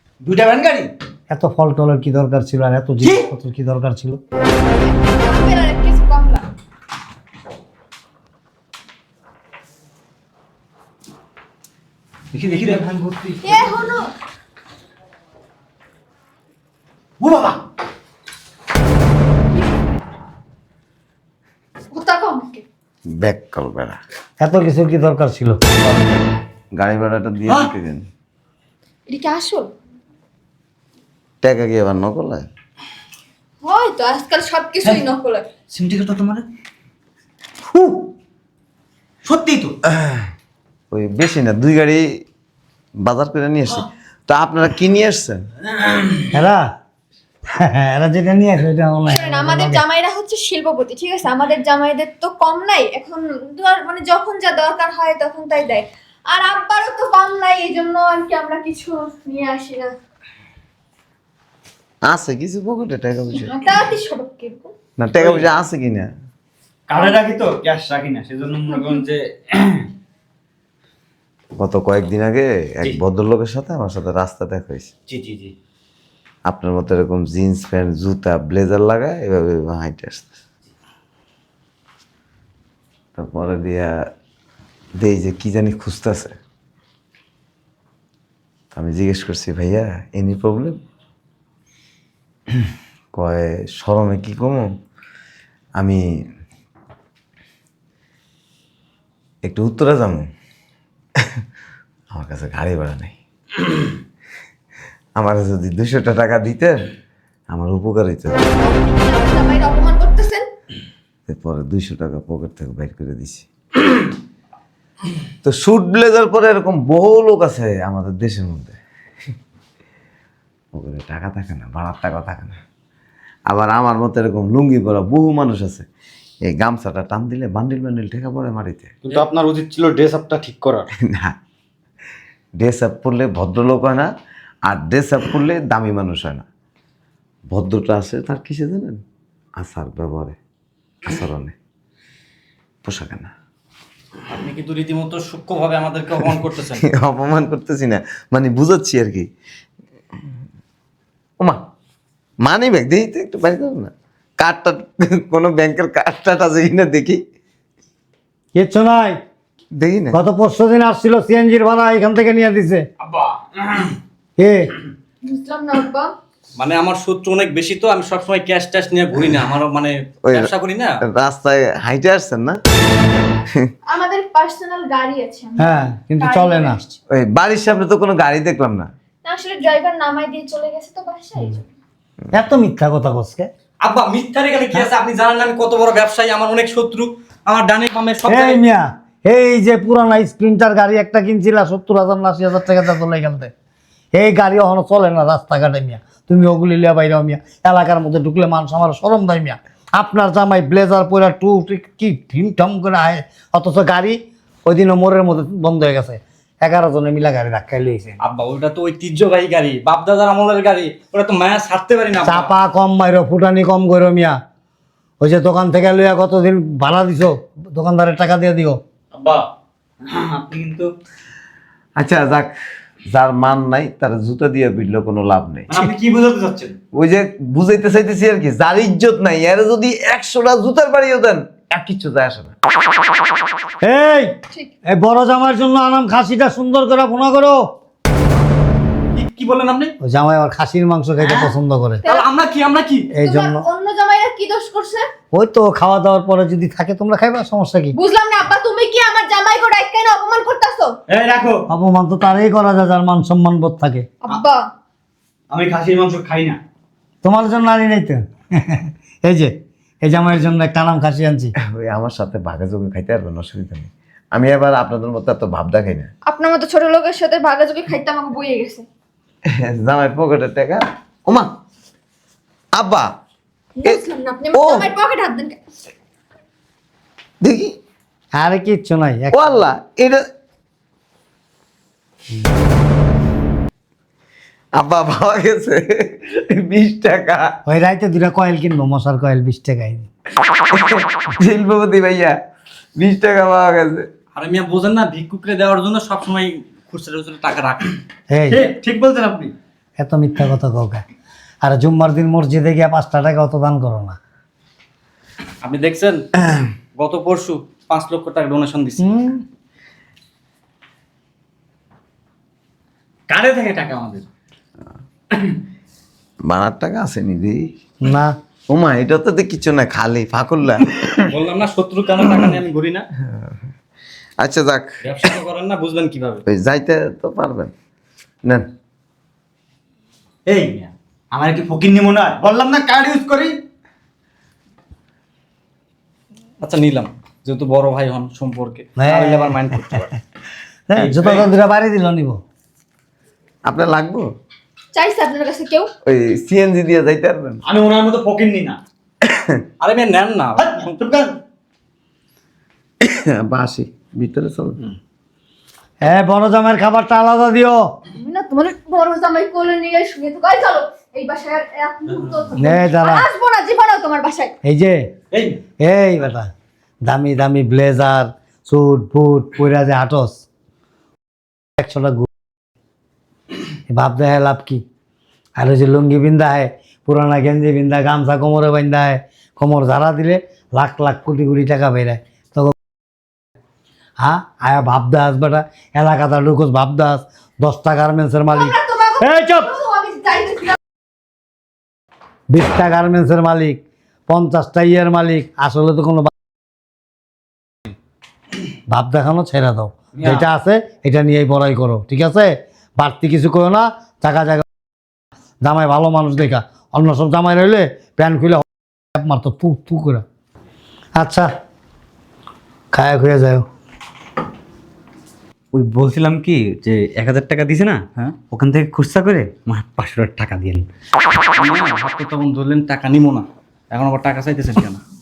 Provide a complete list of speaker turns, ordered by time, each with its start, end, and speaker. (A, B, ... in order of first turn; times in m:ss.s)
0:00.2-0:00.9 A
0:01.3-0:04.2 B
0:03.0-0:03.3 A
0:04.5-0:06.4 C
0:12.3-0:13.6 A
0:13.4-0:14.1 C
0:17.2-0:17.6 A
0:21.9-0:22.6 C
0:23.2-0:24.0 D
0:24.4-0:25.6 B
0:26.7-0:28.1 D
0:29.1-0:29.7 C
0:31.4-0:32.5 D
0:33.6-0:35.5 C
0:35.7-0:36.4 A
0:37.7-0:38.0 A
0:39.2-0:39.8 A
0:40.0-0:40.2 D
0:40.9-0:42.2 D
0:43.0-0:45.4 D
0:45.8-0:46.2 A
0:46.3-0:46.7 B
0:47.6-0:49.8 B
0:49.1-0:59.9 C
1:02.0-1:03.5 D
1:03.3-1:04.7 C
1:05.0-1:06.1 D
1:05.2-1:05.5 A
1:06.9-1:09.9 A
1:08.7-1:09.0 C
1:11.6-1:14.9 D
1:15.1-1:15.5 A
1:16.5-1:20.3 D
1:23.2-1:23.9 D
1:24.9-1:26.3 D
1:28.7-1:30.8 D
1:33.1-1:34.7 D
1:35.8-1:36.0 D
1:39.4-1:40.2 D
1:42.1-1:43.1 D
1:45.2-1:46.8 D
1:47.5-1:48.4 D
1:48.5-1:50.4 C
1:51.3-1:53.4 D
1:55.4-1:58.8 D
2:00.7-2:02.6 D
2:03.5-2:05.8 D
2:06.4-2:08.9 D
2:09.0-2:10.9 A
2:11.1-2:11.3 D
2:12.6-2:14.1 D
2:14.6-2:16.4 D
2:17.5-2:19.0 D
2:19.6-2:20.4 D
2:21.0-2:21.5 D
2:22.8-2:23.3 D
2:24.3-2:26.8 E
2:26.8-2:29.3 D
2:32.4-2:37.2 D
2:38.5-2:39.2 B
2:39.7-2:40.2 D
2:40.1-2:42.8 B
2:43.2-2:43.8 A
2:44.4-2:44.7 B
2:45.2-2:46.1 C
2:46.6-2:51.0 E
2:51.0-2:52.6 D
2:53.9-2:57.0 C
2:55.6-2:56.8 B
2:57.1-2:58.9 D
2:59.2-3:01.6 C
3:02.3-3:03.5 B
3:03.8-3:08.6 E
3:08.2-3:13.5 B
3:14.1-3:28.2 B
3:28.2-3:32.5 E
3:32.2-3:34.4 B
3:35.2-3:38.8 B
3:39.1-3:39.5 A
3:40.0-3:40.9 A
3:42.0-3:42.5 D
3:43.1-3:45.8 D
3:45.7-3:46.8 A
3:46.9-3:52.5 D
3:53.8-3:54.3 B
3:54.9-3:57.6 B
3:59.1-3:59.9 E
4:00.0-4:02.0 B
4:01.2-4:01.5 A
4:02.1-4:03.1 E
4:03.1-4:03.6 B
4:03.2-4:05.0 C
4:05.3-4:07.9 B
4:07.9-4:11.0 C
4:11.1-4:11.7 A
4:11.7-4:14.1 B
4:14.2-4:14.6 C
4:15.5-4:16.6 A
4:17.2-4:21.5 B
4:21.7-4:26.1 D
4:26.2-4:28.8 C
4:29.5-4:31.5 D
4:32.7-4:33.1 D
4:33.8-4:35.6 C
4:34.5-4:34.9 D
4:37.4-4:37.8 D
4:38.3-4:39.6 B
4:39.3-4:40.2 D
4:44.7-4:47.6 D
4:47.6-4:50.1 B
4:50.7-4:52.4 D
4:53.0-4:54.1 D
4:54.3-4:57.9 E
4:58.3-4:58.6 B
4:58.5-4:59.5 A
5:00.0-5:01.0 B
5:01.6-5:04.2 B
5:05.6-5:06.3 E
5:06.9-5:09.0 E
5:09.0-5:09.4 B
5:13.3-5:14.2 A
5:16.4-5:17.6 D
5:18.0-5:18.3 B
5:18.7-5:21.3 D
5:21.3-5:23.1 E
5:24.4-5:25.0 D
5:25.0-5:26.4 E
5:26.5-5:27.7 D
5:30.5-5:33.6 A
5:36.6-5:40.1 E
5:39.0-5:40.0 B
5:40.9-5:42.4 B
5:41.0-5:41.4 A
5:43.6-5:44.3 D
5:44.9-5:45.9 C
5:46.0-5:47.6 D
5:47.6-5:48.8 A
5:49.2-5:49.6 D
5:49.8-5:50.9 E
5:50.6-5:51.4 A
5:53.0-5:54.8 D
5:56.0-5:57.9 B
5:58.1-6:04.5 C
6:02.1-6:02.5 A
6:02.5-6:03.3 B
6:04.6-6:05.0 B
6:05.3-6:05.6 A
6:05.8-6:06.5 B
6:07.0-6:10.4 B
6:11.8-6:12.3 B
6:13.9-6:14.8 B
6:15.6-6:22.7 B
6:24.2-6:29.7 B
6:28.5-6:30.8 C
6:32.5-6:36.3 B
6:38.9-6:44.6 B
6:45.6-6:50.2 B
6:51.2-6:51.5 B
6:52.9-6:53.6 B
6:55.7-7:00.8 A
7:01.5-7:05.0 E